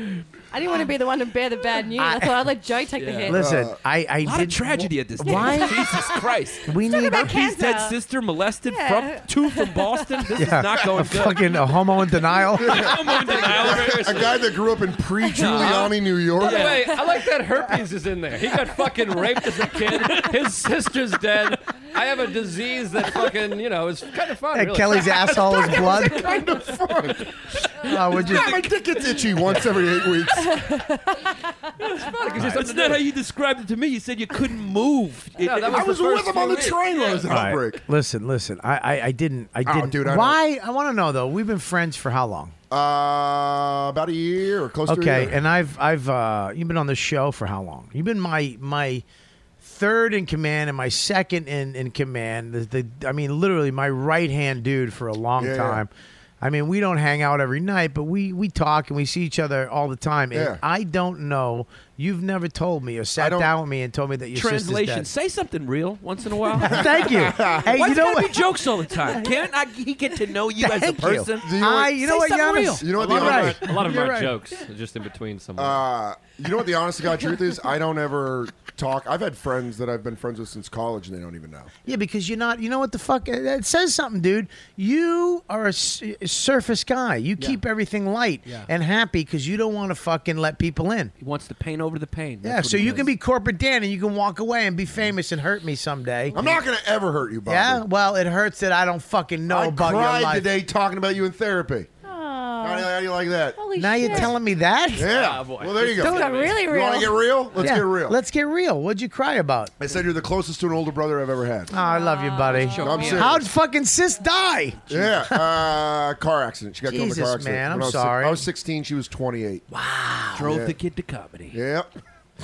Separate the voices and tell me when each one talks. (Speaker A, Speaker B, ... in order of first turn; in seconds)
Speaker A: 0.5-3.5, 5.2-6.2, 6.9-8.0, 8.7-10.3, 15.5-15.8, 30.4-32.5, 102.0-103.0, 103.5-104.3, 106.0-107.4, 111.7-113.2
Speaker B: 2.0-2.5, 3.3-5.9, 6.7-7.4, 10.4-12.9, 24.5-26.4, 27.8-28.6, 37.3-42.5, 44.9-49.0, 49.6-55.9, 56.4-65.1, 66.6-68.5, 69.0-69.3, 70.6-74.4, 81.8-91.1, 92.4-96.4, 97.5-100.5, 103.8-105.3, 107.5-109.7, 111.7-115.7, 116.8-118.5, 119.7-120.5
Speaker C: 3.0-3.3, 4.2-11.5, 12.6-14.3, 15.3-17.0, 19.7-20.3, 28.1-28.7, 31.8-36.4, 64.3-67.1, 67.7-73.1, 91.2-93.1, 112.5-113.3, 120.3-121.6
Speaker D: 3.3-3.8, 12.7-17.0, 25.6-27.4, 28.2-30.6, 35.6-37.8, 39.6-40.4, 42.7-45.4, 55.4-55.8, 60.3-60.6, 63.2-63.5, 66.6-67.7, 71.4-72.1, 72.8-73.8, 75.6-81.8, 96.3-97.8, 99.5-101.9, 102.6-104.3, 104.9-108.2, 109.8-111.7, 112.8-113.5, 114.9-119.7, 120.4-120.8, 121.5-121.9
Speaker E: 13.1-14.4, 16.4-25.5, 32.1-33.1, 35.4-37.4, 73.0-75.8, 104.9-106.7